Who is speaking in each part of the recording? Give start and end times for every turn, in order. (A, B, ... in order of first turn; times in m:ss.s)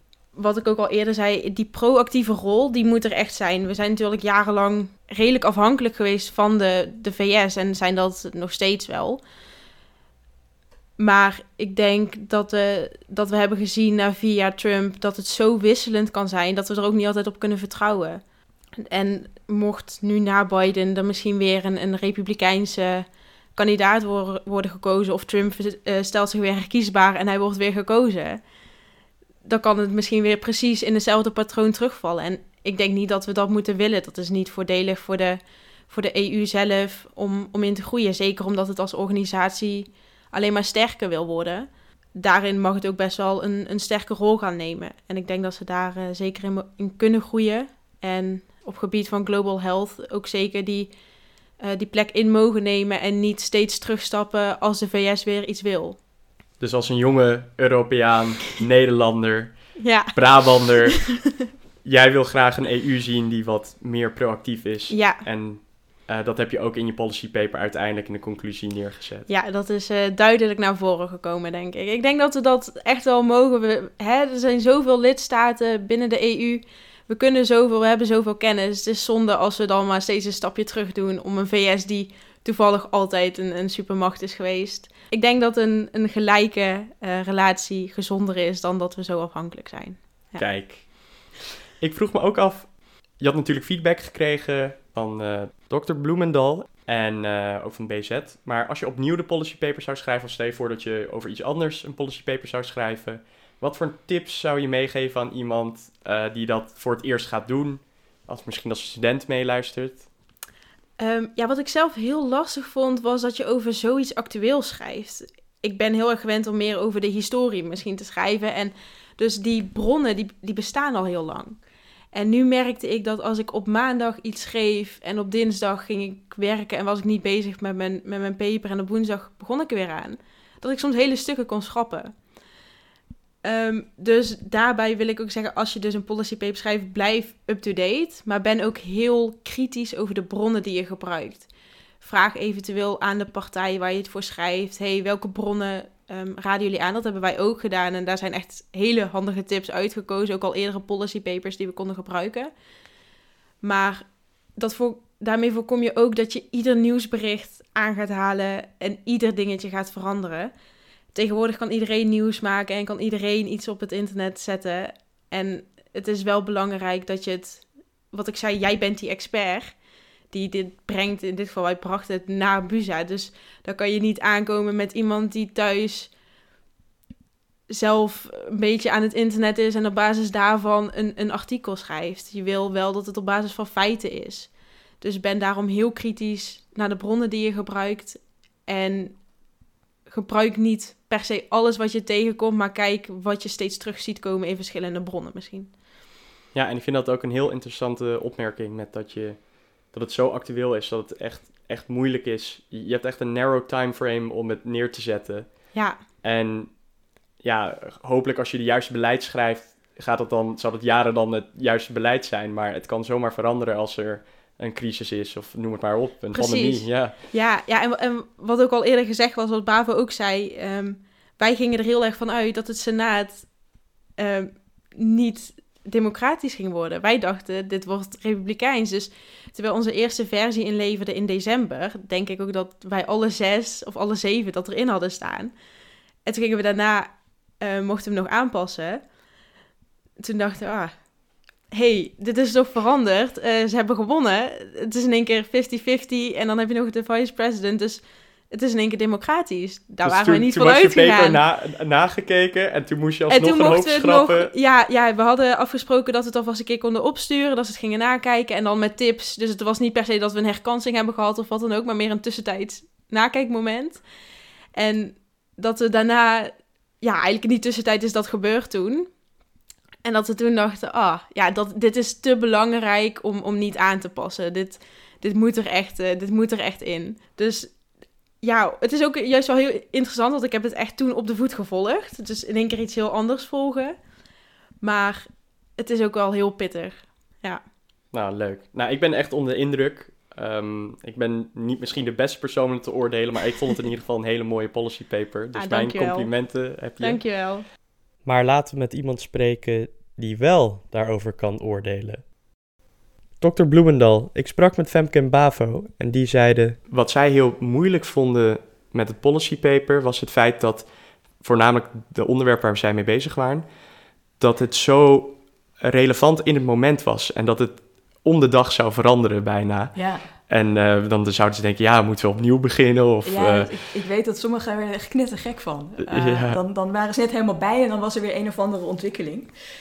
0:00.3-0:09.2 A
0:11.0-0:18.2 A
0:18.8-0:28.4 A
0:29.4-0:50.9 A
0:51.6-0:56.0 A
0:56.6-1:01.3 B
0:59.8-1:00.3 A
1:00.8-1:01.3 A
1:01.8-1:09.3 B
1:04.9-1:05.2 A
1:09.3-1:30.5 A
1:30.4-1:50.1 B
1:51.0-2:01.6 A
2:02.1-2:12.2 A
2:13.4-2:21.5 A
2:22.0-2:32.5 A
2:33.6-2:40.5 A
2:41.1-2:56.1 A
2:57.7-3:09.2 A
3:10.1-3:15.7 A
3:16.5-3:26.8 B
3:25.7-3:26.0 A
3:27.4-3:37.2 B
3:36.3-3:43.6 A
3:44.1-3:55.5 A
3:56.2-3:59.1 A
4:00.2-4:01.1 A
4:01.7-4:11.4 A
4:10.0-4:14.5 B
4:13.3-4:24.0 A
4:24.7-4:29.1 A
4:30.0-4:37.8 A
4:38.4-4:44.0 A
4:44.8-4:47.6 A
4:48.1-4:57.2 B
4:55.5-4:56.3 A
4:57.0-4:57.6 A
4:58.2-5:02.2 B
5:03.4-5:13.7 B
5:14.4-5:23.7 B
5:19.9-5:20.2 C
5:23.2-5:29.5 C
5:26.1-5:26.6 B